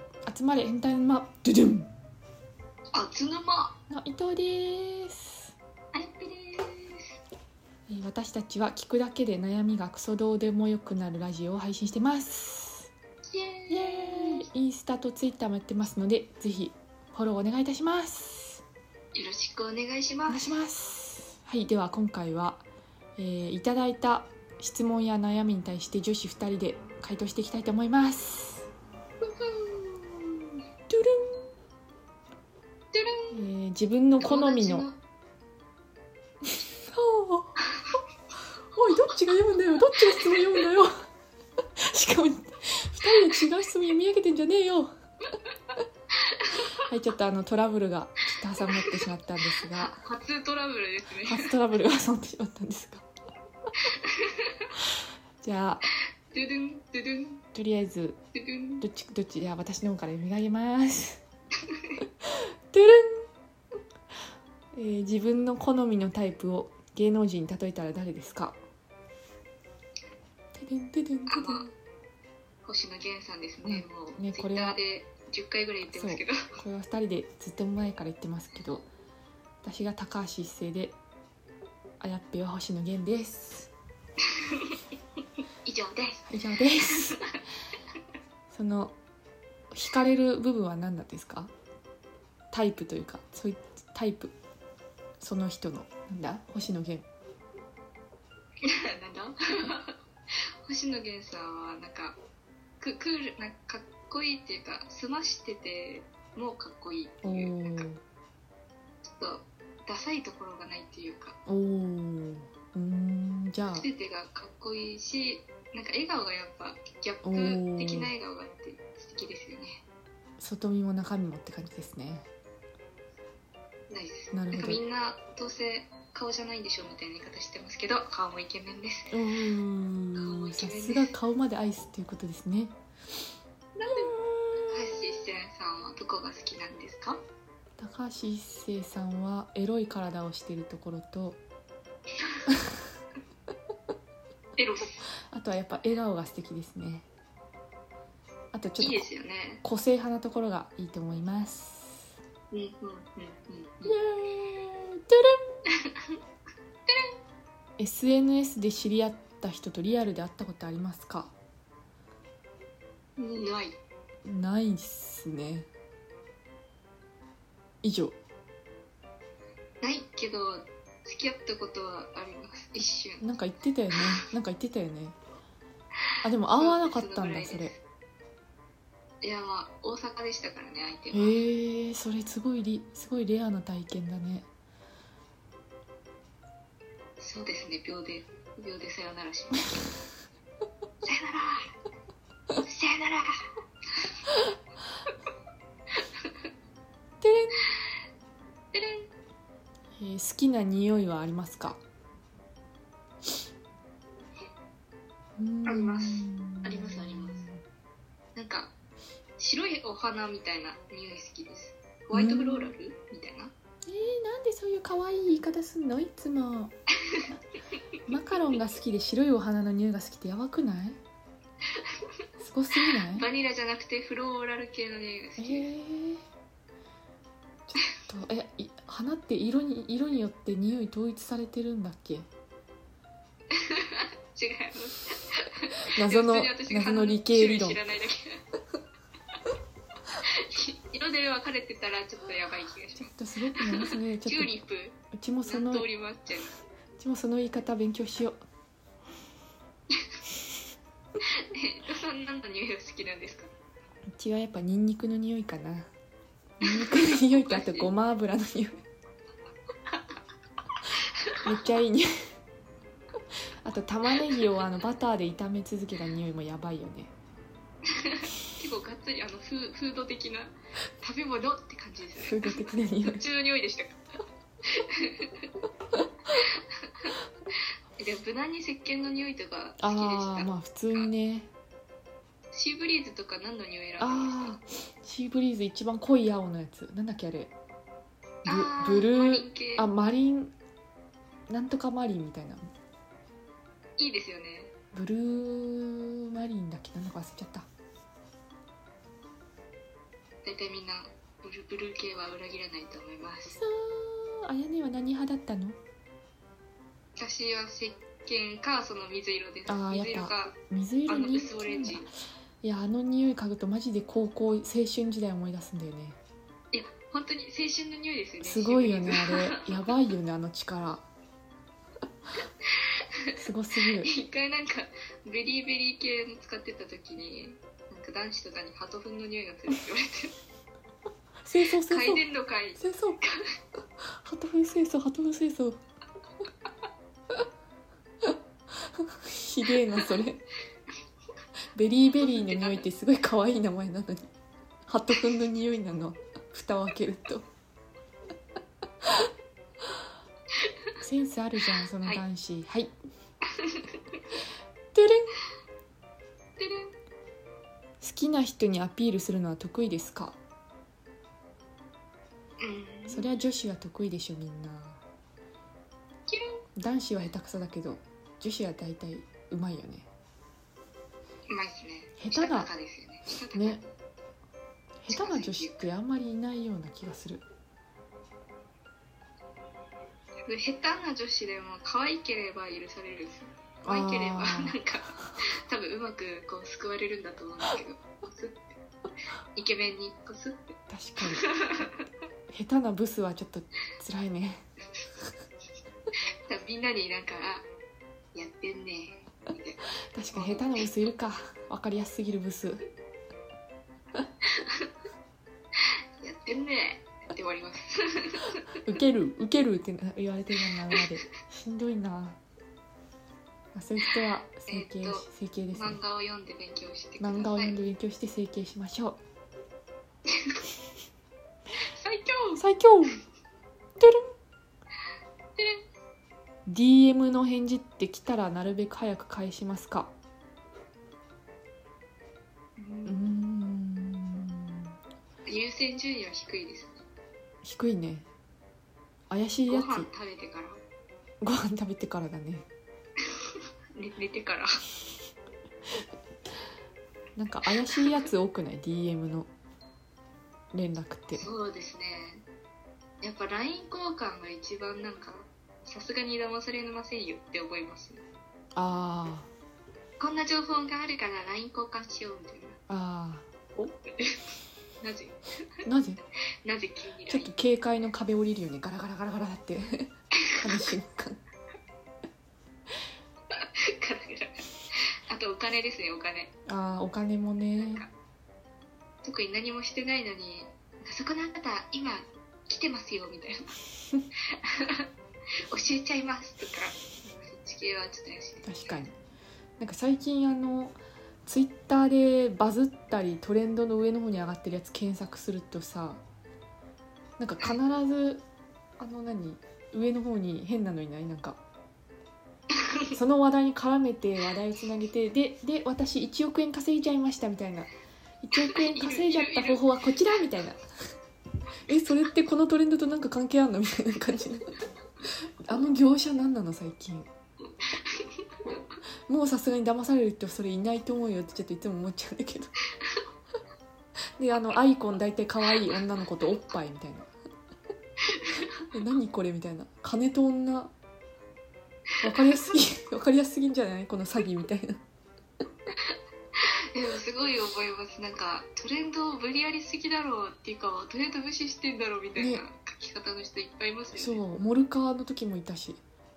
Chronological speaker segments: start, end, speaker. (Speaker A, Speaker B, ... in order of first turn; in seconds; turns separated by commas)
Speaker A: 0.2-1.9, Speaker B: 2.9-3.8, Speaker A: 3.9-5.5, Speaker B: 5.9-7.2, Speaker A: 7.9-12.9, Speaker B: 13.3-14.5, Speaker A: 13.7-18.6, Speaker B: 19.1-20.5, Speaker A: 20.3-22.6, Speaker A: 23.2-28.7, Speaker B: 29.2-30.6, Speaker A: 30.9-31.5, Speaker B: 32.9-33.4, Speaker A: 33.3-34.9, Speaker B: 34.2-35.0, Speaker A: 36.4-37.6, Speaker A: 38.7-40.9, Speaker B: 40.0-40.7, Speaker A: 41.8-44.9, Speaker B: 46.2-46.7, Speaker A: 46.8-50.0, Speaker B: 49.6-51.5, Speaker A: 51.3-53.0, Speaker B: 53.8-54.7, Speaker A: 55.4-55.9, Speaker B: 56.3-57.4, Speaker A: 57.5-58.2, Speaker B: 58.3-58.8, Speaker A: 58.8-61.2, Speaker B: 61.6-62.0, Speaker A: 62.3-63.3, Speaker A: 64.7-68.5, Speaker A: 70.5-71.6, Speaker B: 71.3-71.7, Speaker B: 72.6-76.5, Speaker A: 73.6-74.8, Speaker A: 75.9-78.9, Speaker A: 79.6-81.0, Speaker A: 82.0-83.7, Speaker B: 84.3-84.8, Speaker B: 85.6-86.3, Speaker A: 86.3-87.2, Speaker B: 87.0-87.3, Speaker A: 88.5-88.9, Speaker A: 89.7-91.5, Speaker A: 92.5-94.3, Speaker A: 95.2-97.0, Speaker B: 98.6-100.0, Speaker B: 100.6-102.2, Speaker B: 102.8-107.9, Speaker A: 107.2-108.0, Speaker B: 109.1-111.4, Speaker A: 111.5-113.9, Speaker B: 113.7-119.8, Speaker A: 117.2-118.1, Speaker A: 120.4-122.3, Speaker B: 123.9-129.2, Speaker A: 124.3-124.8, Speaker A: 129.1-132.8, Speaker B: 130.1-131.2, Speaker B: 133.8-134.1, Speaker A: 134.0-134.8, Speaker B: 134.7-137.2, Speaker A: 137.8-141.4, Speaker B: 144.6-145.0, Speaker A: 145.3-147.1, Speaker A: 148.5-149.1, Speaker B: 148.8-149.6, Speaker A: 149.6-152.1, Speaker B: 152.5-154.0, Speaker A: 153.8-155.4, Speaker B: 155.7-156.2, Speaker B: 156.9-157.2, Speaker A: 157.8-161.3, Speaker B: 163.2-163.8, Speaker A: 164.2-165.7, Speaker A: 167.8-168.2, Speaker B: 169.8-173.2, Speaker A: 173.2-175.1, Speaker A: 176.2-177.7, Speaker B: 176.5-177.8, Speaker B: 179.2-181.4, Speaker A: 181.1-184.5, Speaker B: 187.2-189.9, Speaker B: 191.0-191.7, Speaker B: 192.6-193.4, Speaker A: 197.2-197.6, Speaker B: 198.7-199.1, Speaker A: 200.0-201.8, Speaker A: 205.4-207.6, Speaker B: 205.6-207.4, Speaker B: 208.3-208.7, Speaker B: 209.4-213.5, Speaker A: 212.1-212.7, Speaker A: 213.9-216.7, Speaker A: 218.0-221.0, Speaker A: 222.4-223.2, Speaker B: 222.8-225.7, Speaker A: 225.4-226.2, Speaker A: 227.7-232.2, Speaker B: 233.5-238.4, Speaker A: 235.9-237.8, Speaker B: 240.2-246.6, Speaker A: 242.9-245.9, Speaker A: 247.0-248.3, Speaker B: 251.2-253.5, Speaker A: 254.1-255.9, Speaker A: 256.6-258.8, Speaker B: 256.6-257.9, Speaker B: 260.9-261.4, Speaker A: 261.4-262.1, Speaker A: 263.6-267.1, Speaker B: 267.9-274.0, Speaker A: 272.2-273.2, Speaker B: 274.6-275.5, Speaker B: 276.3-277.1, Speaker B: 278.0-281.1, Speaker A: 279.8-281.5, Speaker B: 282.5-284.6, Speaker A: 284.0-287.5, Speaker A: 288.4-290.5, Speaker B: 288.4-289.9, Speaker A: 291.5-292.6, Speaker B: 294.0-294.7, Speaker A: 294.9-297.7, Speaker B: 300.4-303.6, Speaker A: 303.5-305.8, Speaker B: 307.1-312.1, Speaker A: 309.7-312.1, Speaker A: 312.6-316.2, Speaker B: 316.7-319.6, Speaker A: 318.4-321.0, Speaker A: 323.4-324.1, Speaker B: 324.0-330.3, Speaker A: 331.4-332.2, Speaker B: 331.8-333.5, Speaker A: 332.8-333.2, Speaker A: 334.0-335.8, Speaker A: 338.9-340.4, Speaker A: 341.7-344.3, Speaker B: 342.2-342.9, Speaker A: 344.9-347.4, Speaker A: 351.0-352.9, Speaker B: 353.4-354.2, Speaker A: 354.9-355.3, Speaker B: 356.6-356.9, Speaker A: 358.0-360.4, Speaker B: 362.6-363.3, Speaker A: 363.1-365.0, Speaker B: 366.3-366.6, Speaker A: 366.8-370.1, Speaker B: 371.5-373.9, Speaker A: 372.2-372.7, Speaker A: 373.5-373.8, Speaker A: 375.0-377.4, Speaker B: 375.1-375.9, Speaker B: 380.5-388.8, Speaker A: 383.8-384.8, Speaker B: 389.5-391.9, Speaker A: 390.9-391.4, Speaker A: 392.5-394.6, Speaker B: 396.5-397.7, Speaker B: 398.3-400.9, Speaker A: 400.1-402.8, Speaker B: 404.5-404.9, Speaker B: 406.2-408.6, Speaker A: 408.8-412.4, Speaker A: 413.7-416.0, Speaker B: 414.6-417.8, Speaker A: 417.2-419.2, Speaker B: 420.3-420.6, Speaker B: 422.0-422.6, Speaker A: 422.6-423.2, Speaker A: 424.0-424.2, Speaker B: 425.6-425.8, Speaker A: 426.6-430.1, Speaker B: 432.8-433.2, Speaker A: 433.1-434.9, Speaker B: 435.4-437.0, Speaker A: 437.6-438.2, Speaker A: 439.3-440.1, Speaker B: 439.7-440.8, Speaker A: 441.4-442.6, Speaker B: 444.0-444.7, Speaker A: 447.4-449.5, Speaker B: 447.9-448.2, Speaker A: 450.7-451.5, Speaker B: 451.3-452.4, Speaker B: 453.2-458.2, Speaker A: 458.7-459.5, Speaker B: 460.2-462.8, Speaker A: 462.9-463.4, Speaker B: 463.8-465.5, Speaker A: 465.8-466.2, Speaker B: 466.6-467.5, Speaker A: 467.3-471.4, Speaker B: 470.6-470.9, Speaker B: 473.5-476.5, Speaker A: 476.7-478.0, Speaker B: 477.8-478.1, Speaker B: 479.2-483.8, Speaker B: 484.5-485.1, Speaker B: 485.7-489.0, Speaker A: 488.6-489.1, Speaker A: 489.8-496.2, Speaker A: 497.4-498.4, Speaker A: 499.0-501.6, Speaker B: 502.8-503.1, Speaker A: 503.1-507.9, Speaker A: 508.4-510.9, Speaker B: 508.7-509.8, Speaker A: 511.9-514.7, Speaker A: 515.6-517.3, Speaker B: 517.8-518.8, Speaker A: 519.3-522.7, Speaker A: 524.4-527.3, Speaker B: 528.3-528.7, Speaker A: 528.9-530.9, Speaker A: 532.2-535.0, Speaker B: 536.1-544.4, Speaker A: 542.4-542.6, Speaker A: 544.1-546.0